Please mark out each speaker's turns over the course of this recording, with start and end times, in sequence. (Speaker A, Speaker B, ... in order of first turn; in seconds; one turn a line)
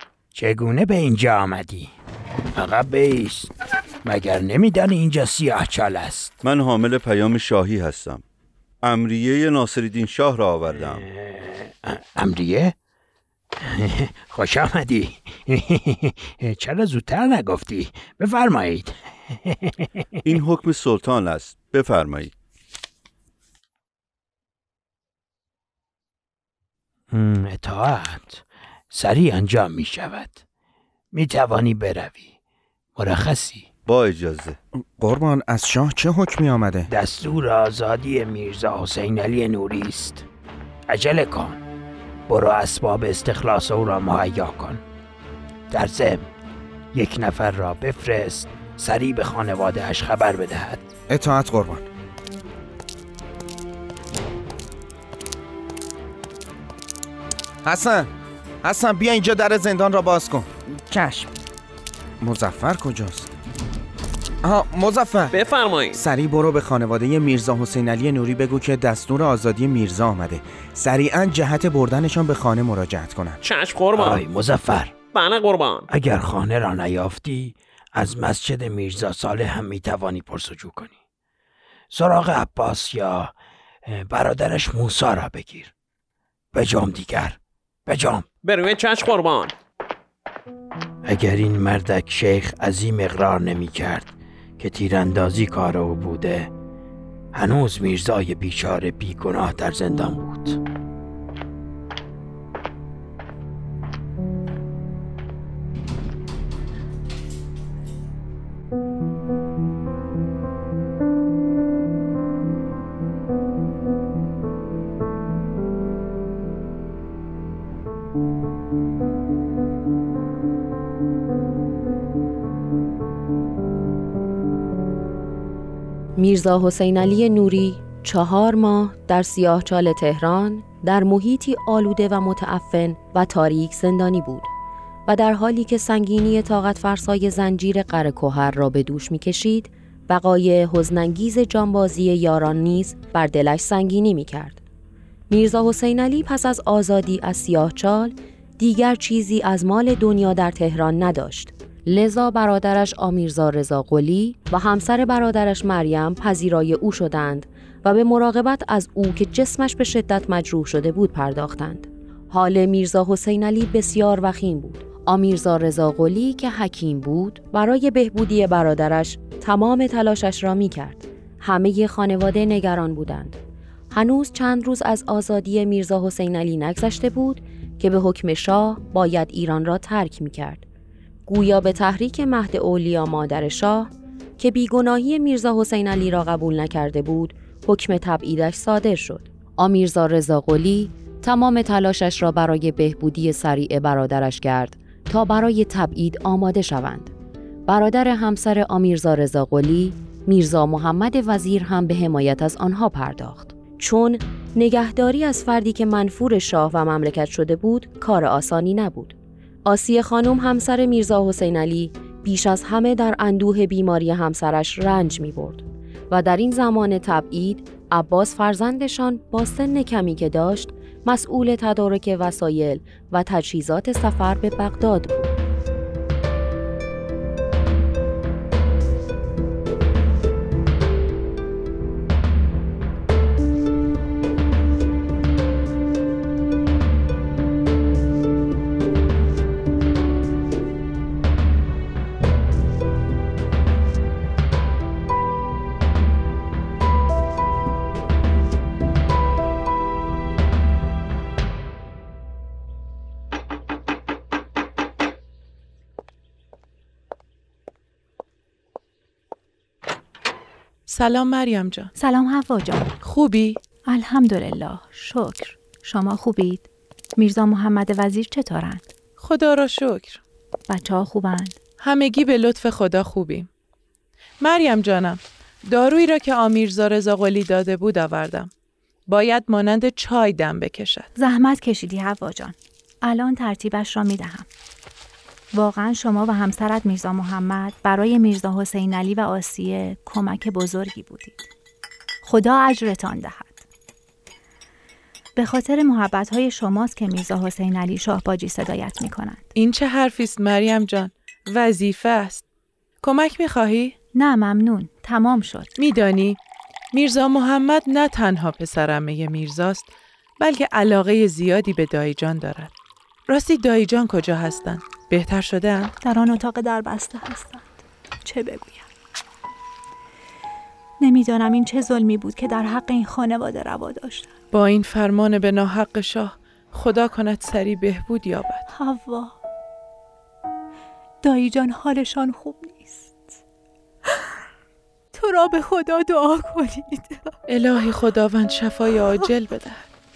Speaker A: 0.3-1.9
Speaker A: 2.5-3.5
Speaker A: 4.0-6.3
Speaker B: 6.4-8.2
Speaker B: 8.8-11.0
Speaker A: 10.9-12.7
Speaker A: 13.6-19.7
Speaker B: 20.2-22.3
Speaker A: 27.1-30.4
Speaker A: 31.1-32.3
Speaker A: 33.0-33.7
Speaker B: 33.9-34.6
Speaker C: 34.8-36.9
Speaker A: 36.9-40.2
Speaker A: 40.9-41.6
Speaker A: 42.3-44.8
Speaker A: 45.7-46.2
Speaker A: 46.9-50.8
Speaker C: 51.1-51.9
Speaker C: 57.6-58.1
Speaker C: 58.6-61.3
Speaker C: 62.2-63.3
Speaker C: 64.4-65.3
Speaker D: 65.3-66.0
Speaker C: 65.9-73.4
Speaker D: 73.4-74.2
Speaker A: 73.9-75.0
Speaker D: 75.1-75.8
Speaker A: 75.9-81.0
Speaker A: 81.9-83.3
Speaker A: 83.8-85.7
Speaker A: 86.5-88.3
Speaker D: 88.4-89.5
Speaker A: 91.0-96.5
Speaker A: 97.3-100.6
Speaker E: 126.2-134.5
Speaker E: 135.1-144.6
Speaker E: 145.3-173.4
Speaker E: 173.9-180.7
Speaker E: 181.3-197.1
Speaker E: 197.7-225.3
Speaker F: 260.9-261.9
Speaker G: 261.9-263.0
Speaker F: 263.0-263.6
Speaker G: 263.8-268.8
Speaker F: 269.2-270.2
Speaker G: 270.7-271.6
Speaker F: 271.8-273.5
Speaker F: 274.4-278.5
Speaker F: 279.1-281.1
Speaker G: 281.1-284.5
Speaker G: 285.5-291.4
Speaker G: 292.2-293.6
Speaker G: 295.4-299.4
Speaker F: 299.5-302.4
Speaker F: 303.0-303.9
Speaker G: 304.1-305.7
Speaker F: 305.8-306.4
Speaker F: 306.9-312.7
Speaker F: 313.3-315.9
Speaker G: 316.0-317.7
Speaker G: 318.2-318.9
Speaker G: 321.0-324.3
Speaker F: 324.5-328.6
Speaker G: 328.7-329.4
Speaker G: 331.2-333.3
Speaker G: 335.1-337.3
Speaker F: 337.5-339.9